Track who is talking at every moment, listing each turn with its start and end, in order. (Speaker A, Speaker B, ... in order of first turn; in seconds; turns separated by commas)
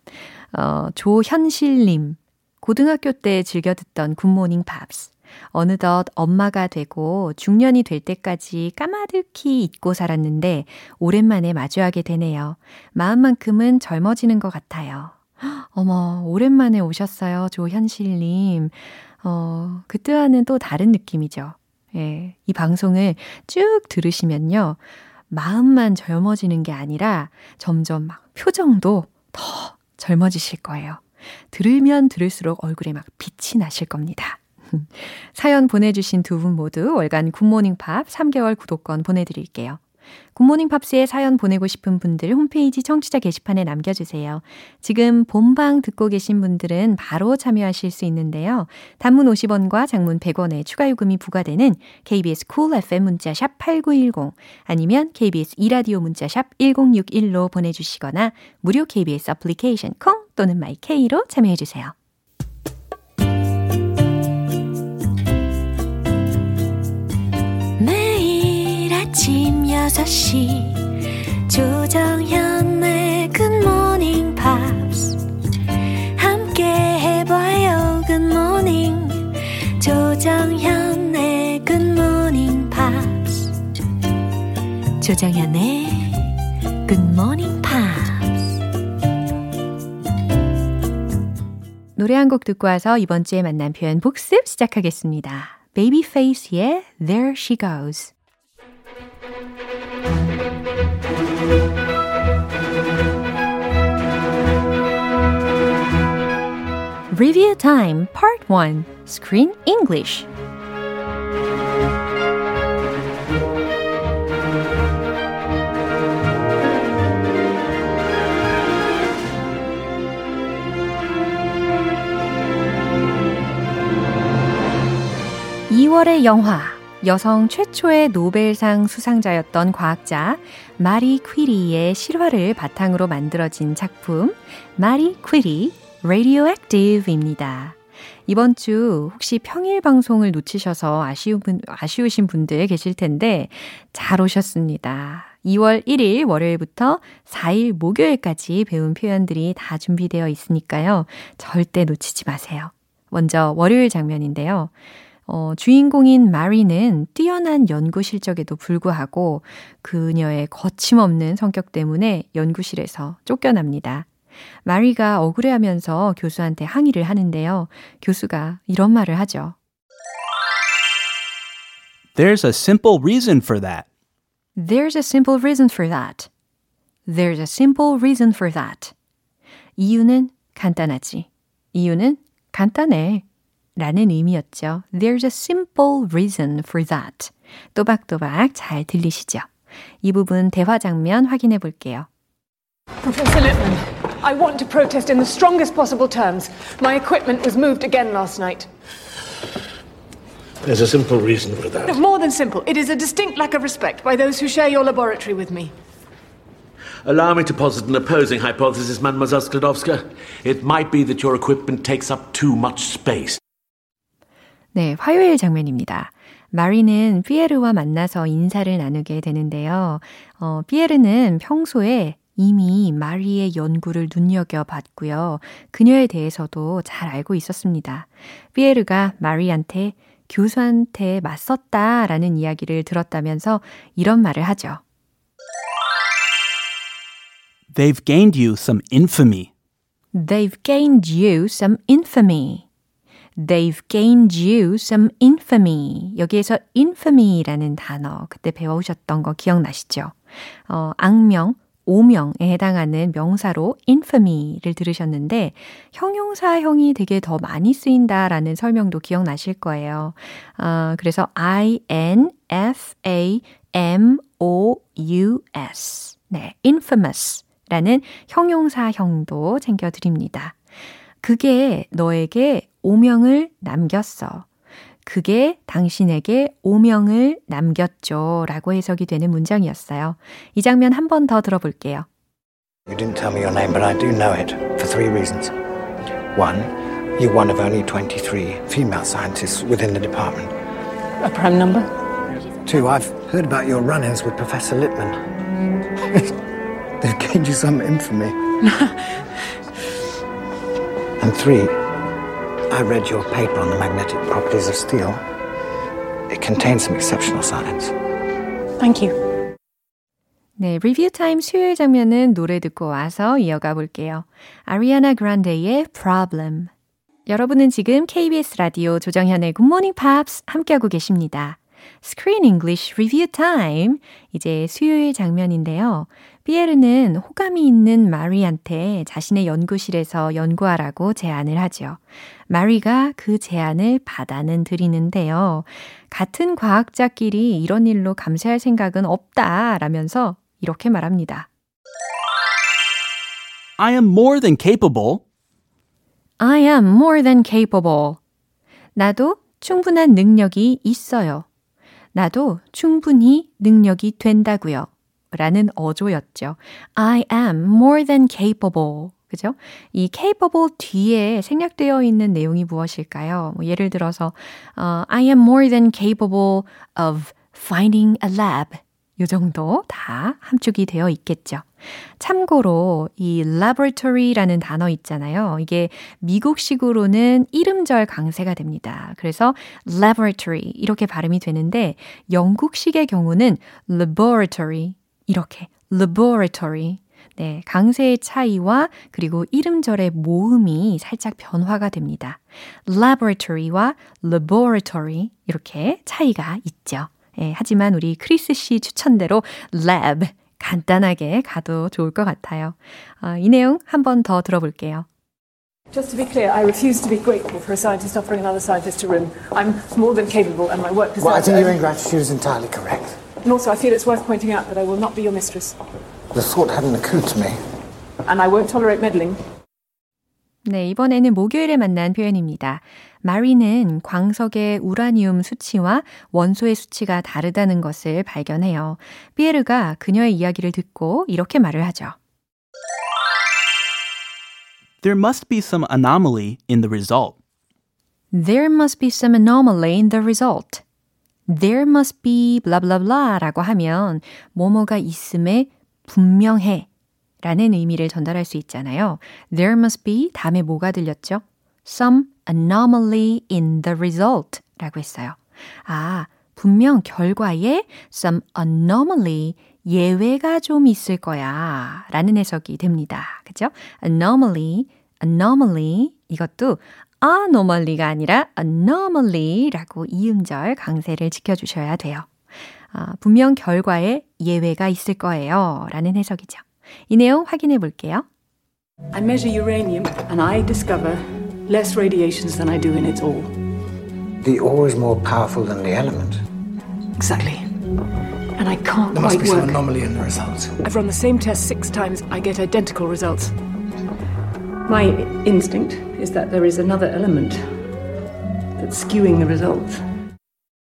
Speaker A: 0.5-39.8, Speaker A: 40.3-61.9, Speaker A: 67.8-70.8, Speaker A: 71.5-75.2, Speaker A: 76.2-83.5, Speaker A: 85.0-88.5, Speaker A: 92.0-98.1, Speaker A: 107.1-110.3, Speaker A: 125.7-154.7, Speaker A: 155.3-164.1, Speaker A: 164.6-169.6, Speaker B: 172.1-173.9, Speaker A: 174.6-176.3, Speaker A: 177.1-178.9, Speaker A: 179.8-183.2, Speaker A: 183.8-189.5, Speaker A: 190.0-192.1, Speaker C: 193.0-198.7, Speaker D: 200.6-202.0, Speaker C: 201.8-205.7, Speaker D: 207.0-213.4, Speaker A: 214.7-234.8, Speaker B: 237.7-239.5, Speaker A: 240.1-242.7, Speaker A: 243.3-250.2, Speaker A: 250.7-270.6, Speaker A: 271.2-274.5, Speaker A: 275.1-282.1, Speaker E: 282.9-285.5, Speaker E: 286.3-290.5, Speaker C: 291.2-291.9, Speaker E: 292.6-295.2, Speaker E: 297.0-298.4, Speaker C: 298.6-298.9, Speaker E: 301.2-301.7, Speaker E: 302.7-305.2, Speaker E: 306.3-307.9, Speaker C: 308.8-309.2, Speaker A: 310.6-316.7, Speaker A: 317.3-341.5, Speaker B: 343.8-345.2, Speaker A: 346.4-348.2, Speaker A: 348.9-351.4, Speaker A: 352.1-371.7, Speaker A: 372.2-405.1, Speaker C: 405.9-411.8, Speaker E: 411.2-413.2, Speaker C: 413.4-415.8, Speaker E: 416.3-417.6, Speaker C: 418.2-419.4, Speaker A: 420.6-432.1, Speaker B: 435.0-437.4, Speaker A: 438.3-440.8, Speaker A: 441.5-446.9, Speaker A: 447.4-472.3, Speaker A: 472.9-478.2, Speaker C: 479.1-483.6, Speaker E: 484.4-486.4, Speaker C: 487.2-487.7, Speaker C: 488.6-489.8, Speaker E: 489.1-490.7, Speaker C: 490.8-493.5, Speaker C: 494.9-497.9, Speaker C: 498.8-500.0